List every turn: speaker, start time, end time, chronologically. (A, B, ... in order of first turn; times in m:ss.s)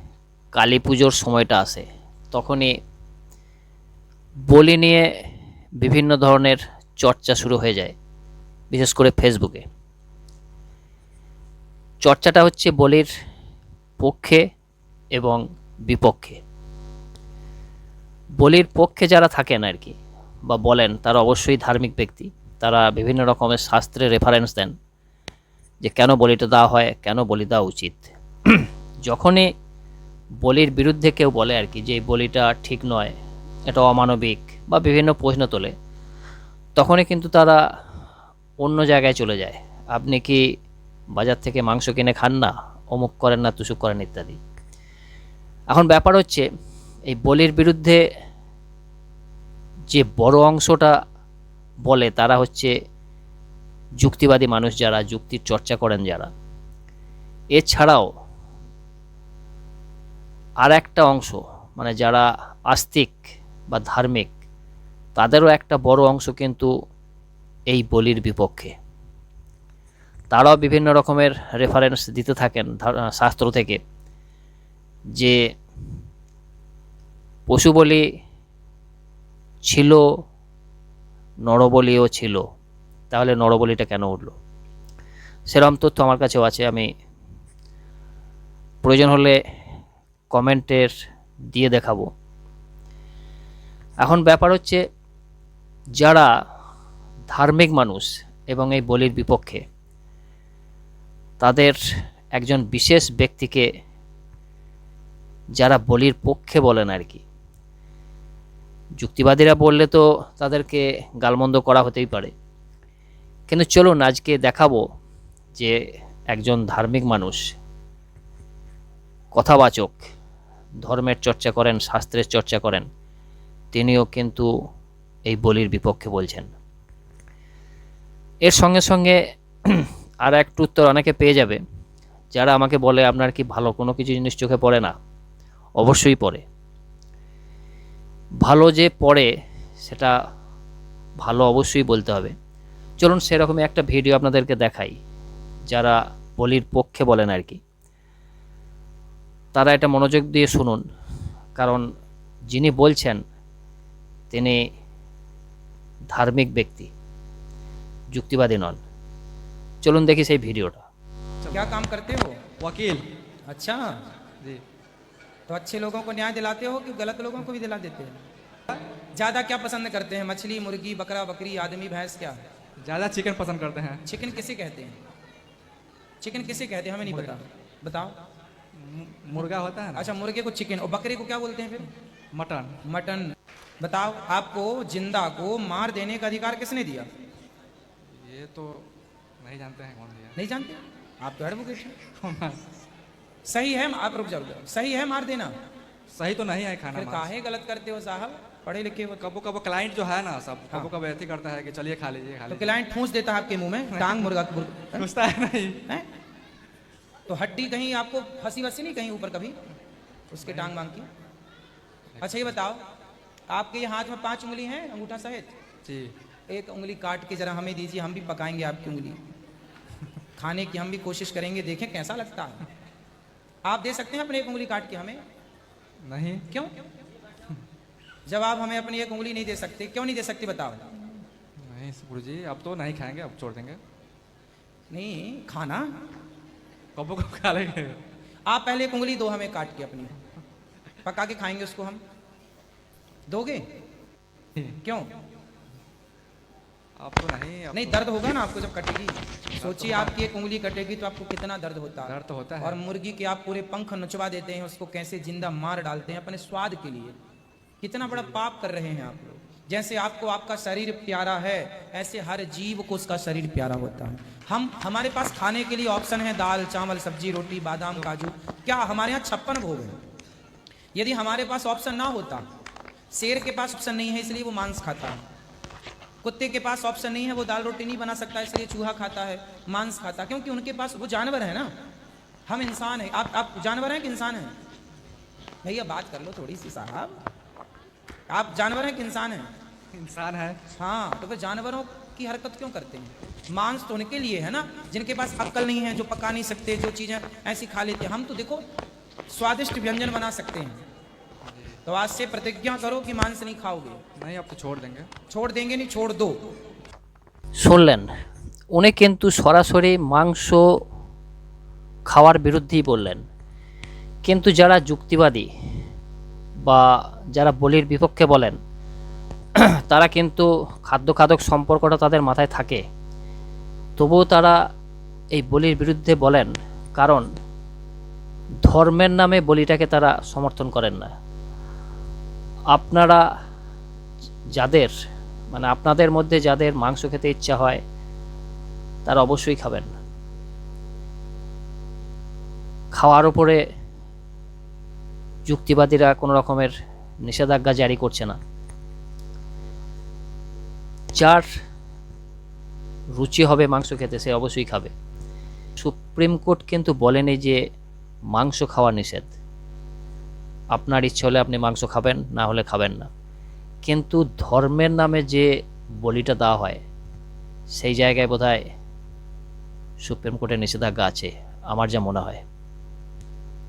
0:00.5-0:02.7 A
0:04.5-0:05.1 A
0:05.8-0:07.9 A
0:08.7-0:09.6 A
0:12.0-0:13.1 A
0:14.0-0:14.4 A
0:15.1-0:16.4 A
0:18.4-0:24.7 A
0:25.8-0:29.5 A
0:30.4-0:33.1 A
0:33.7-0:35.7 A
0:36.8-0:37.6 A
0:38.6-0:40.4 A
0:41.2-0:44.4 A
0:45.7-0:46.5 A
0:47.1-0:48.0 A
0:49.9-0:50.9 A
0:51.8-0:52.7 A
0:54.0-0:56.3 A
0:57.6-0:58.1 A
1:00.6-1:04.3 A
1:05.2-1:06.7 A
1:07.7-1:08.7 A
1:10.3-1:13.8 A
1:17.5-1:18.0 A
1:19.6-1:20.0 A
1:21.4-1:22.4 A
1:23.1-1:24.4 A
1:25.5-1:26.9 A
1:28.8-1:29.4 A
1:30.3-1:30.9 A
1:31.5-1:32.1 A
1:34.0-1:34.8 A
1:36.0-1:36.3 A
1:37.3-1:39.6 A
1:41.4-1:41.8 A
1:42.4-1:43.7 A
1:45.6-1:47.2 A
1:49.0-1:52.3 A
1:53.5-1:54.8 A
1:56.3-1:57.5 A
1:59.3-2:00.0 A
2:00.8-2:02.9 A
2:03.7-2:04.5 A
2:05.3-2:06.5 A
2:08.4-2:11.6 A
2:12.3-2:14.9 A
2:15.8-2:16.4 A
2:18.4-2:19.3 A
2:19.8-2:20.1 A
2:21.2-2:22.3 A
2:23.0-2:25.0 A
2:25.7-2:27.6 A
2:29.5-2:30.8 A
2:31.6-2:31.9 A
2:32.5-2:33.2 A
2:34.3-2:34.6 A
2:36.1-2:36.9 A
2:38.1-2:38.8 A
2:39.8-2:40.9 A
2:41.4-2:41.8 B
2:41.5-2:42.4 C
2:42.6-2:43.0 B
2:43.5-2:44.0 C
2:45.5-2:48.2 C
2:49.1-2:52.4 C
2:52.8-2:54.1 B
2:54.0-2:55.0 C
2:56.2-2:58.2 C
2:56.5-2:57.4 B
2:58.7-3:00.1 B
3:00.0-3:01.9 C
3:02.3-3:02.8 B
3:02.8-3:07.1 C
3:08.1-3:10.4 B
3:10.4-3:12.0 C
3:12.2-3:12.6 B
3:13.4-3:15.5 C
3:16.1-3:17.3 B
3:16.9-3:19.2 C
3:19.2-3:22.7 B
3:22.5-3:25.1 C
3:23.9-3:24.3 B
3:24.9-3:25.8 B
3:27.3-3:29.6 C
3:30.3-3:31.1 C
3:30.4-3:30.8 B
3:32.1-3:32.5 B
3:32.2-3:32.8 C
3:33.5-3:35.5 C
3:35.8-3:36.2 B
3:36.5-3:39.2 C
3:40.4-3:42.6 C
3:43.6-3:45.2 C
3:46.0-3:46.5 B
3:48.2-3:50.8 C
3:51.6-3:53.8 B
3:54.9-3:55.9 C
3:57.0-3:58.0 B
3:58.4-4:00.1 C
4:01.0-4:02.0 C
4:03.3-4:03.6 C
4:04.8-4:05.1 C
4:07.0-4:08.0 B
4:07.7-4:17.2 C
4:09.5-4:10.2 B
4:12.0-4:12.8 B
4:17.8-4:30.0 C
4:30.9-4:32.4 C
4:33.1-4:35.2 C
4:36.2-4:41.7 C
4:42.5-4:44.5 C
4:45.6-4:47.2 C
4:48.3-4:49.5 C
4:49.9-4:50.6 B
4:50.7-4:58.6 C
4:59.3-5:00.8 C
5:01.4-5:01.8 B
5:01.8-5:04.0 C
5:04.2-5:05.1 B
5:05.3-5:06.5 C
5:07.6-5:08.1 A
5:08.7-5:10.8 A
5:12.1-5:13.2 A
5:14.2-5:15.5 A
5:16.6-5:18.6 A
5:19.5-5:22.8 A
5:24.0-5:24.6 A
5:25.3-5:27.2 A
5:28.6-5:31.1 A
5:32.7-5:33.2 A
5:34.6-5:34.9 A
5:35.5-5:37.8 A
5:39.0-5:39.9 A
5:42.9-5:43.6 A
5:45.5-5:48.4 A
5:51.1-5:51.5 A
5:53.2-5:54.9 A
5:55.8-5:57.6 A
5:58.3-5:59.3 A
6:00.7-6:03.1 A
6:03.8-6:05.5 A
6:06.0-6:06.8 A
6:07.8-6:08.6 A
6:10.0-6:12.4 A